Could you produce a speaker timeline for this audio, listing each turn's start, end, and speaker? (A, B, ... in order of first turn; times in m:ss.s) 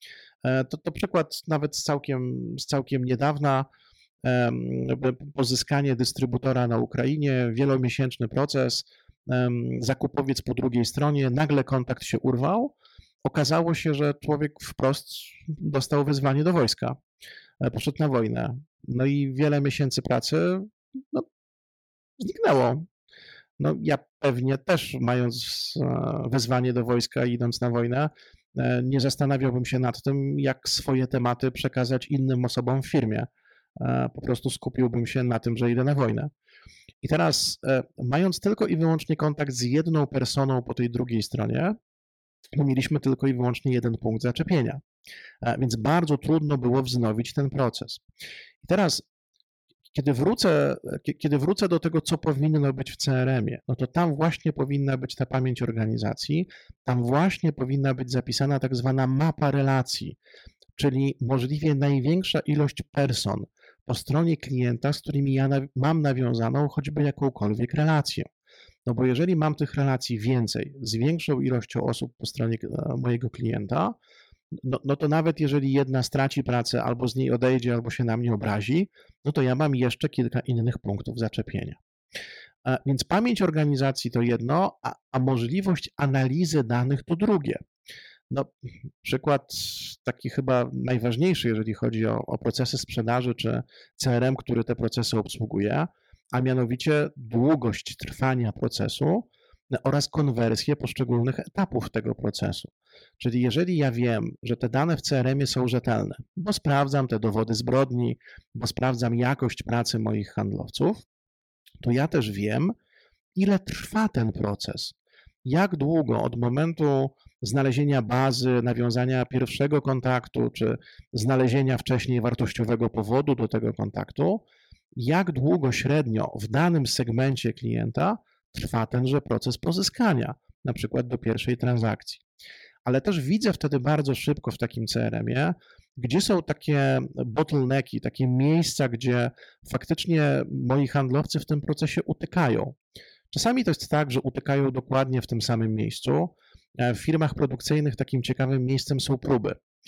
0:00.4-0:03.7 A
0:04.2-0:12.7 A
0:13.2-0:17.0 A
0:17.6-0:21.2 A
0:22.2-0:22.9 A
0:23.6-0:36.3 A
0:37.0-0:41.7 A
0:42.6-0:44.8 A
0:45.4-0:48.0 A
0:48.6-0:49.0 A
0:49.9-1:00.2 A
1:00.8-1:08.3 A
1:08.8-1:14.0 A
1:14.6-1:21.8 A
1:22.6-1:27.6 A
1:29.0-1:51.0 A
1:51.8-1:52.7 A
1:53.3-2:04.4 A
2:04.9-2:12.2 A
2:12.8-2:22.8 A
2:23.3-2:29.6 A